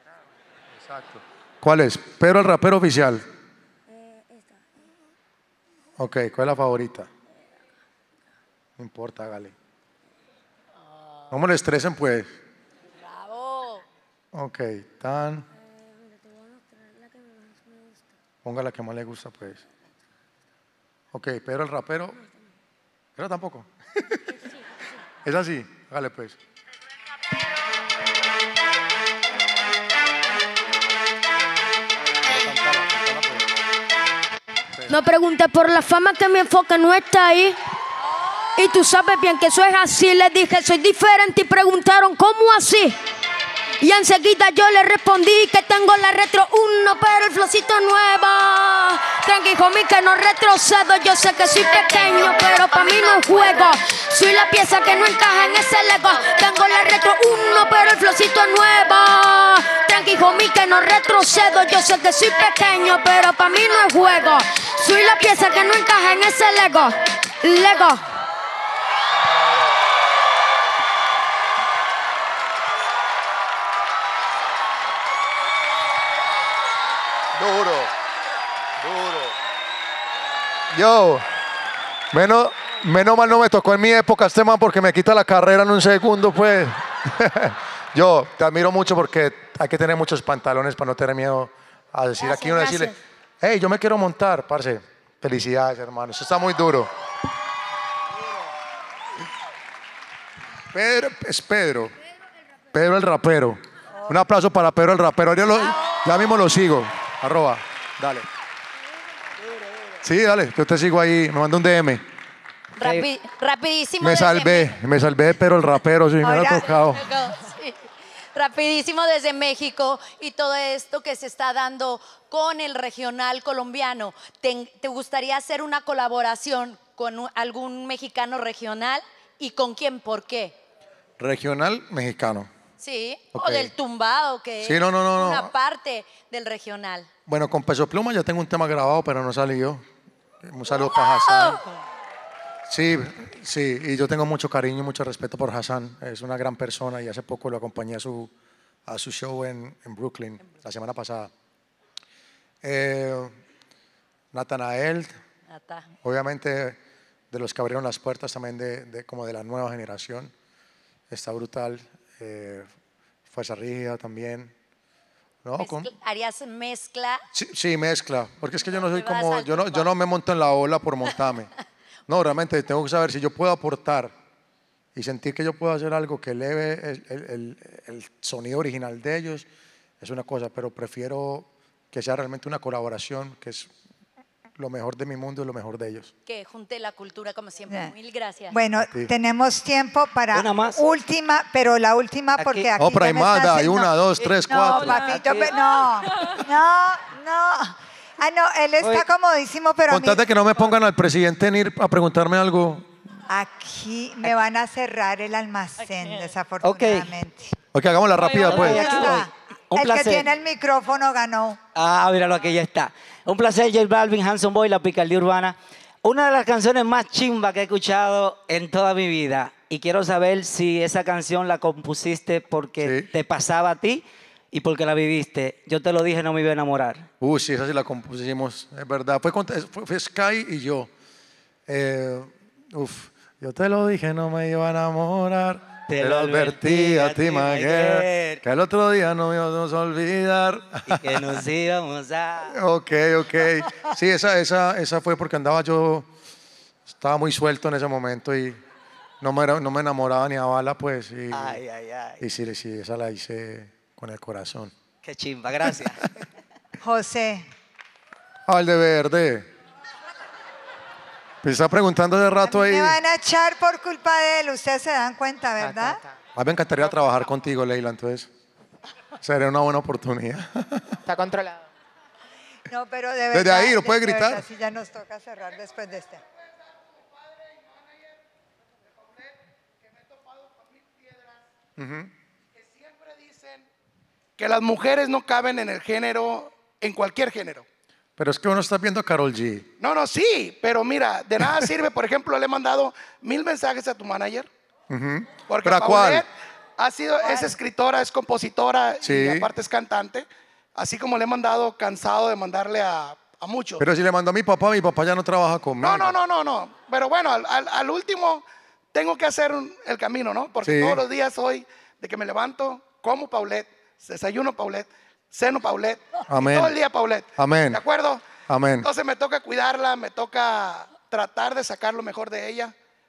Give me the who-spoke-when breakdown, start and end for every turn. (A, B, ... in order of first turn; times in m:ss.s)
0:00.7-0:03.2 A
0:03.9-0:04.8 B
0:06.0-0:07.1 A
0:08.8-0:09.6 A
0:11.3-0:12.4 A
0:13.0-0:13.8 C
0:14.3-0:15.5 A
0:16.0-0:18.0 B
0:18.4-0:19.6 A
0:21.1-0:22.2 A
0:23.2-0:24.3 A
0:25.2-0:26.4 A
0:32.3-0:33.4 A
0:34.9-0:37.6 B
0:38.5-0:43.0 B
0:43.8-1:08.0 B
1:17.4-1:17.9 A
1:18.8-1:19.4 A
1:20.7-1:21.2 A
1:22.1-1:36.9 A
1:32.2-1:33.0 B
1:40.7-1:42.0 A
1:42.7-1:48.3 A
1:50.0-1:52.0 A
1:52.8-1:54.8 C
1:52.8-1:53.1 D
1:54.0-1:57.0 A
1:56.2-1:56.6 E
1:56.8-2:10.6 C
2:11.2-2:12.5 A
2:12.8-2:17.1 C
2:13.3-2:13.7 A
2:14.6-2:15.5 A
2:17.3-2:19.8 A
2:20.4-2:21.6 A
2:20.7-2:21.8 C
2:22.7-2:28.3 A
2:28.9-2:31.3 A
2:32.6-2:33.4 A
2:34.3-2:35.2 A
2:35.5-2:35.9 C
2:36.0-2:36.8 A
2:37.3-2:40.3 A
2:41.1-2:42.7 A
2:43.3-2:44.5 A
2:45.4-2:45.9 A
2:45.6-2:47.2 C
2:47.3-2:51.5 A
2:48.6-2:49.9 C
2:52.1-2:54.1 A
2:55.0-2:59.5 A
3:00.0-3:03.7 A
3:04.6-3:06.1 A
3:06.3-3:08.6 C
3:07.7-3:07.9 E
3:08.5-3:13.9 E
3:08.8-3:09.1 A
3:10.3-3:10.8 D
3:12.4-3:12.7 D
3:12.8-3:15.2 A
3:14.5-3:20.2 E
3:14.7-3:15.6 D
3:19.9-3:22.9 A
3:23.3-3:27.6 E
3:26.6-3:27.1 D
3:27.7-3:29.2 A
3:28.3-3:30.3 D
3:28.5-3:31.6 E
3:31.8-3:47.1 D
3:42.8-3:43.1 A
3:47.2-3:50.9 A
3:51.7-4:01.4 A
3:55.9-3:58.4 D
4:00.9-4:02.6 D
4:02.5-4:06.1 A
4:06.9-4:08.6 A
4:09.2-4:11.6 A
4:11.3-4:12.2 D
4:12.2-4:14.7 A
4:15.0-4:16.1 D
4:16.8-4:17.5 E
4:18.5-4:19.5 A
4:21.4-4:23.0 A
4:22.4-4:26.0 E
4:26.4-4:28.3 A
4:29.2-4:31.0 A
4:31.1-4:31.6 D
4:32.7-4:36.2 E
4:33.3-4:34.4 A
4:36.8-4:38.2 F
4:38.9-4:41.4 F
4:41.8-4:42.1 A
4:42.5-4:43.7 F
4:44.4-4:47.7 F
4:48.2-4:49.7 A
4:49.8-4:54.5 F
4:54.9-4:56.3 A
4:55.5-5:03.8 F
4:57.2-4:57.6 E
4:59.0-4:59.5 A
5:03.8-5:06.2 A
5:05.8-5:18.2 F
5:10.6-5:11.0 A
5:16.3-5:16.8 A
5:17.4-5:17.8 A
5:18.5-5:18.9 A
5:18.8-5:22.8 F